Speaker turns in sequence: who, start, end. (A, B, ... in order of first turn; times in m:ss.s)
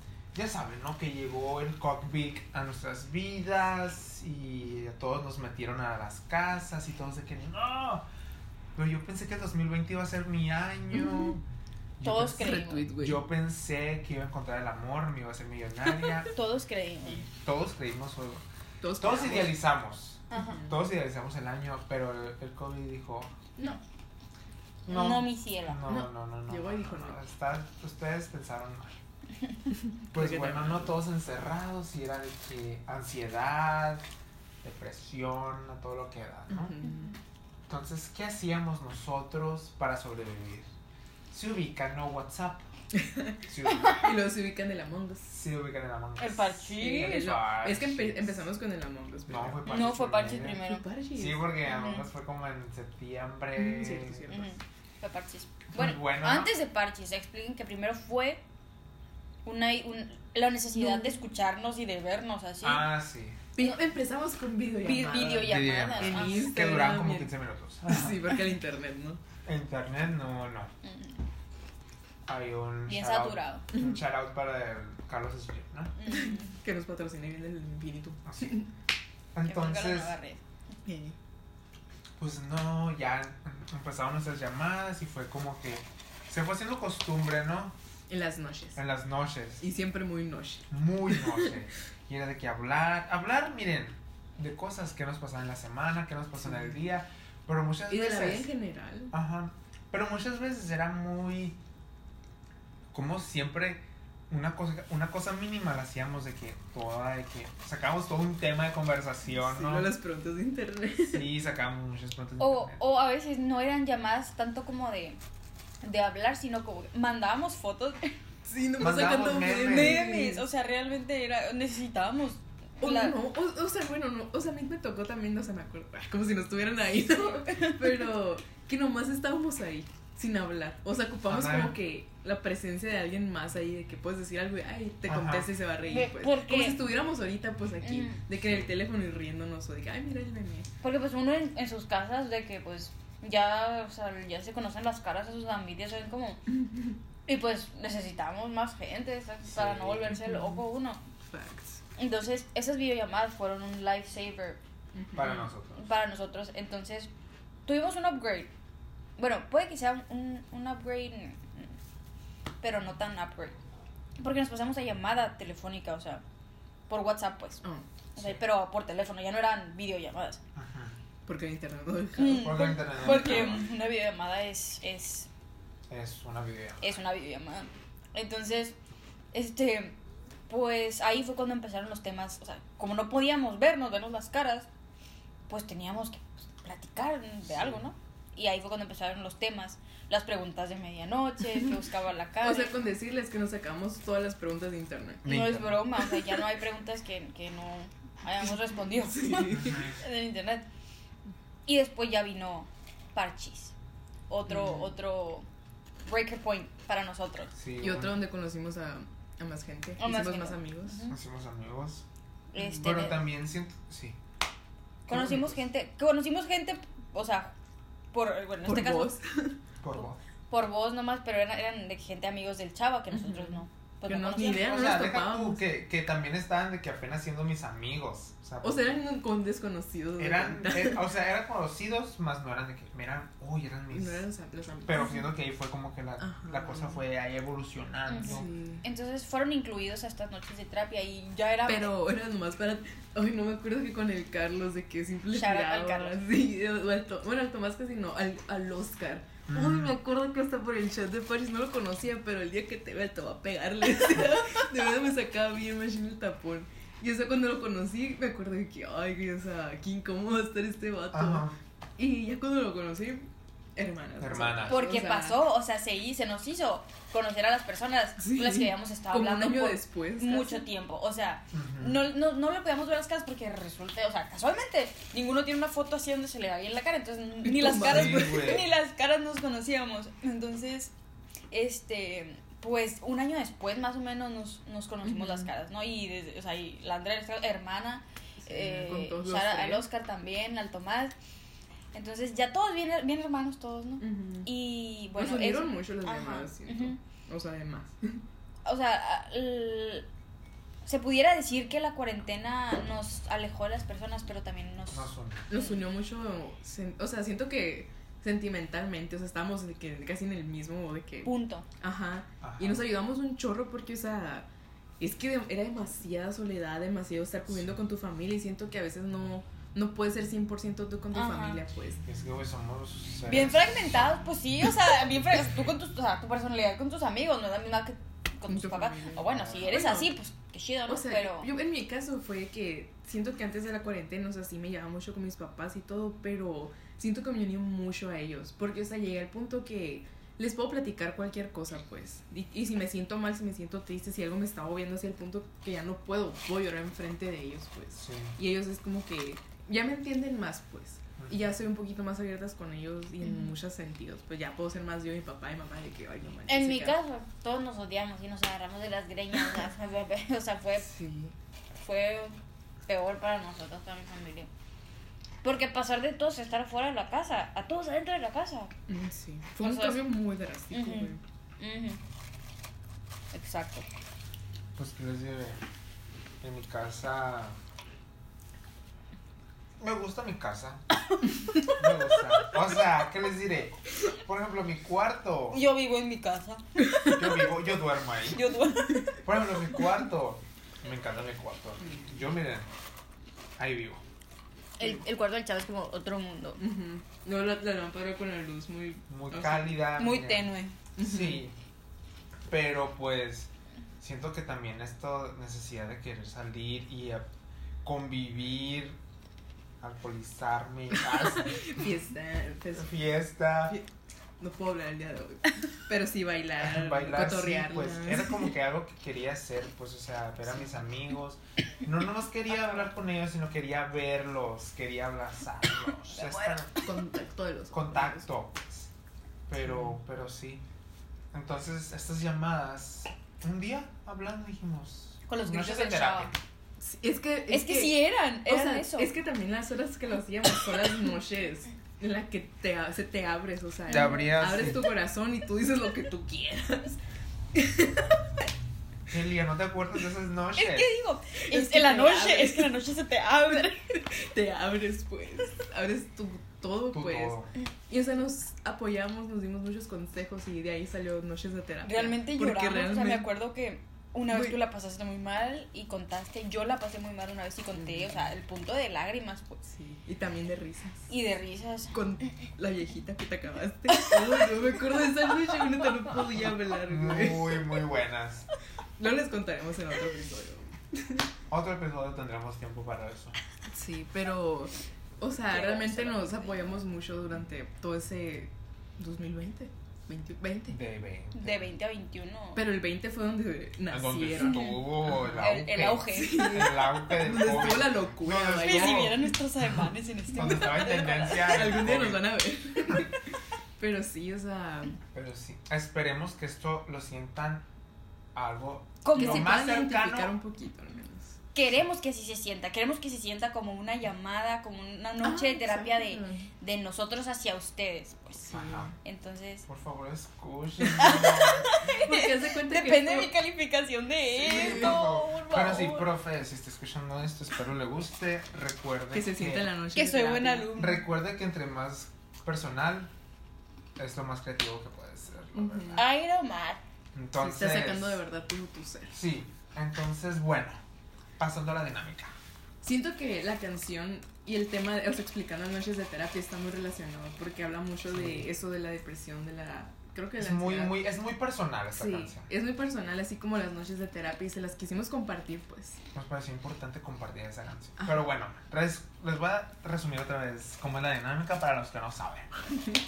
0:00.3-0:08.0 A
0:08.7-0:11.4 A
0:12.0-0:16.3 A
0:12.0-0:12.9 B
0:12.3-0:13.2 C
0:16.3-0:17.2 B
0:17.0-0:18.4 A
0:18.8-0:19.6 C
0:19.0-0:23.4 A
0:20.3-0:20.6 B
0:20.3-0:20.8 C
0:24.8-0:29.0 A
0:24.9-0:25.8 B
0:25.8-0:27.2 C
0:29.9-0:31.0 C
0:30.1-0:34.0 A
0:34.6-0:36.7 A
0:36.5-0:37.1 C
0:37.7-0:40.7 A
0:41.3-0:42.7 A
0:42.9-0:45.3 C
0:43.5-0:44.1 A
0:43.7-0:44.0 B
0:45.3-0:48.4 A
0:46.2-0:47.3 B
0:46.8-0:49.7 C
0:49.3-0:50.6 A
0:49.6-0:50.8 B
0:50.5-0:51.5 C
0:51.2-0:54.3 A
0:51.6-0:52.0 B
0:53.6-0:54.5 C
0:54.3-0:58.4 B
0:55.7-0:56.5 A
0:59.4-1:02.9 B
1:00.8-1:01.2 C
1:02.6-1:03.4 A
1:03.6-1:07.3 C
1:04.8-1:06.5 B
1:05.4-1:08.3 A
1:07.8-1:09.2 C
1:09.4-1:10.7 A
1:10.8-1:11.2 B
1:12.3-1:16.0 A
1:12.9-1:13.6 B
1:16.0-1:16.5 B
1:16.1-1:18.7 C
1:18.3-1:18.5 A
1:19.3-1:20.1 A
1:19.4-1:20.4 B
1:20.8-1:21.1 C
1:22.2-1:27.7 A
1:28.1-1:28.8 C
1:28.8-1:29.6 A
1:29.6-1:31.5 C
1:30.7-1:38.5 A
1:36.4-1:36.7 C
1:37.9-1:39.1 C
1:39.1-1:41.6 A
1:42.9-1:49.9 A
1:49.3-1:51.3 C
1:51.1-1:52.8 A
1:52.4-1:55.2 B
1:55.8-1:58.1 B
1:58.4-2:00.4 C
1:58.8-2:00.1 A
1:59.5-2:03.2 B
2:02.8-2:20.7 C
2:07.1-2:08.0 B
2:11.3-2:11.8 A
2:15.1-2:15.5 A
2:15.8-2:16.8 B
2:17.8-2:18.2 B
2:18.4-2:18.7 A
2:20.8-2:26.4 B
2:27.2-2:31.0 B
2:29.4-2:30.2 A
2:30.2-2:30.5 C
2:31.2-2:31.8 C
2:32.0-2:34.6 B
2:34.9-2:35.5 C
2:35.1-2:35.9 A
2:35.8-2:37.1 B
2:37.6-2:38.5 B
2:39.2-2:41.7 B
2:42.6-2:43.6 B
2:44.2-2:46.2 B
2:46.9-2:47.6 B
2:48.2-2:48.4 A
2:48.2-2:50.4 B
2:50.5-2:50.9 A
2:51.2-2:53.6 C
2:52.2-2:55.3 B
2:52.3-2:53.7 A
2:55.9-2:56.9 A
2:56.8-2:58.8 B
2:59.3-3:00.0 B
3:00.5-3:04.7 B
3:05.5-3:12.7 B
3:07.5-3:07.8 A
3:12.4-3:15.2 C
3:15.2-3:15.8 A
3:15.2-3:20.6 B
3:19.0-3:19.8 C
3:19.5-3:20.0 A
3:21.6-3:23.7 B
3:24.3-3:25.5 B
3:24.5-3:24.9 C
3:26.0-3:27.5 B
3:27.5-3:28.2 A
3:27.8-3:31.0 C
3:30.0-3:31.2 B
3:31.1-3:32.0 A
3:32.5-3:33.2 B
3:32.8-3:34.2 A
3:35.1-3:35.6 A
3:35.1-3:37.5 B
3:38.1-3:39.1 B
3:38.6-3:39.6 C
3:39.8-3:40.2 A
3:40.0-3:44.8 B
3:43.1-3:45.6 C
3:44.4-3:48.9 A
3:48.6-3:51.0 C
3:50.2-3:54.2 A
3:53.9-3:55.2 C
3:54.8-3:58.5 A
3:56.2-3:57.0 C
3:58.1-4:01.9 B
3:58.2-3:58.8 C
4:01.6-4:21.5 C
4:05.3-4:06.1 B
4:09.5-4:10.0 A
4:21.1-4:21.6 A
4:22.0-4:25.4 C
4:24.2-4:24.8 A
4:24.7-4:40.9 B
4:28.2-4:30.6 C
4:31.5-4:32.0 A
4:37.4-4:38.6 C
4:37.8-4:38.7 A
4:41.5-4:51.1 B
4:45.0-4:45.5 C
4:48.4-4:49.8 C
4:51.9-4:57.0 B
4:54.0-4:54.5 C
4:55.1-4:58.2 C
4:58.6-5:00.1 B
5:00.8-5:05.8 B
5:04.9-5:05.5 A
5:05.5-5:14.5 C
5:11.2-5:11.6 B
5:12.4-5:12.9 A
5:15.0-5:22.0 C
5:21.1-5:21.6 B
5:22.0-5:24.2 A
5:23.3-5:31.5 B
5:28.5-5:30.1 C
5:29.2-5:29.8 A
5:30.9-5:57.0 C
5:48.0-5:48.4 A
5:51.2-5:51.5 A
5:53.2-5:53.5 B
5:56.5-6:00.9 B
6:00.8-6:01.3 C
6:01.7-6:02.4 B
6:02.9-6:04.5 B
6:05.4-6:08.7 B
6:08.9-6:11.2 C
6:09.6-6:10.1 B
6:10.7-6:12.0 B
6:13.3-6:13.8 B
6:14.8-6:15.6 A
6:16.4-6:17.6 A
6:19.8-6:20.8 A
6:21.7-6:25.6 A
6:25.5-6:26.6 B
6:27.1-6:28.5 A
6:28.3-6:29.2 B
6:29.2-6:32.7 A
6:31.8-6:32.1 C
6:33.6-6:34.0 A
6:34.8-6:36.6 B
6:36.6-6:39.7 C
6:39.1-6:41.5 A
6:40.0-6:40.8 B
6:41.0-6:41.4 C
6:42.5-6:47.2 A
6:47.8-6:49.0 A
6:49.8-6:51.7 A
6:51.1-6:53.0 C
6:52.7-6:53.8 A
6:54.4-6:58.5 C
6:56.6-7:06.7 A
7:06.0-7:06.7 B
7:06.8-7:08.3 C
7:07.7-7:08.9 A
7:09.5-7:10.6 A
7:09.5-7:10.0 C
7:11.3-7:16.4 A
7:15.3-7:16.3 B
7:16.8-7:27.0 C
7:17.5-7:19.1 B
7:23.9-7:24.8 A
7:23.9-7:24.4 B
7:27.5-7:28.2 C
7:29.1-7:30.9 A
7:30.6-7:33.8 B
7:31.5-7:32.8 C
7:33.5-7:43.3 C
7:36.9-7:37.5 A
7:41.8-7:49.6 B
7:44.3-7:44.6 C
7:47.7-7:48.3 C
7:49.6-7:51.1 C
7:51.1-7:52.3 B
7:51.9-7:57.7 C
7:56.9-7:58.5 A
7:59.0-8:01.3 C
8:01.5-8:03.4 A
8:03.7-8:10.8 C
8:05.5-8:06.8 B
8:10.7-8:11.7 A
8:11.3-8:12.6 B
8:12.5-8:15.4 C
8:13.9-8:22.3 A
8:14.4-8:16.5 B
8:16.1-8:19.3 C
8:18.6-8:21.5 B
8:20.4-8:23.2 C
8:23.8-8:25.0 C
8:25.1-8:27.7 A
8:28.3-8:30.3 A
8:29.0-8:29.7 B
8:29.1-8:31.4 C
8:31.5-8:39.6 B
8:35.2-8:36.5 C
8:38.5-8:38.9 C
8:38.5-8:38.9 A
8:39.7-8:41.7 A
8:40.8-8:46.1 B
8:41.8-8:43.3 C
8:44.4-8:49.7 A
8:44.4-8:45.1 C
8:49.1-8:50.8 C
8:49.9-8:51.0 B
8:50.7-8:53.1 A
8:54.0-8:56.0 A
8:55.5-8:56.0 C
8:56.0-8:56.8 B
8:57.1-8:58.2 A
8:57.4-8:59.2 C
8:59.1-9:00.8 A
9:01.4-9:02.3 A
9:02.8-9:11.0 C
9:08.1-9:08.5 A
9:10.4-9:12.5 A
9:11.9-9:16.0 C
9:16.1-9:22.5 A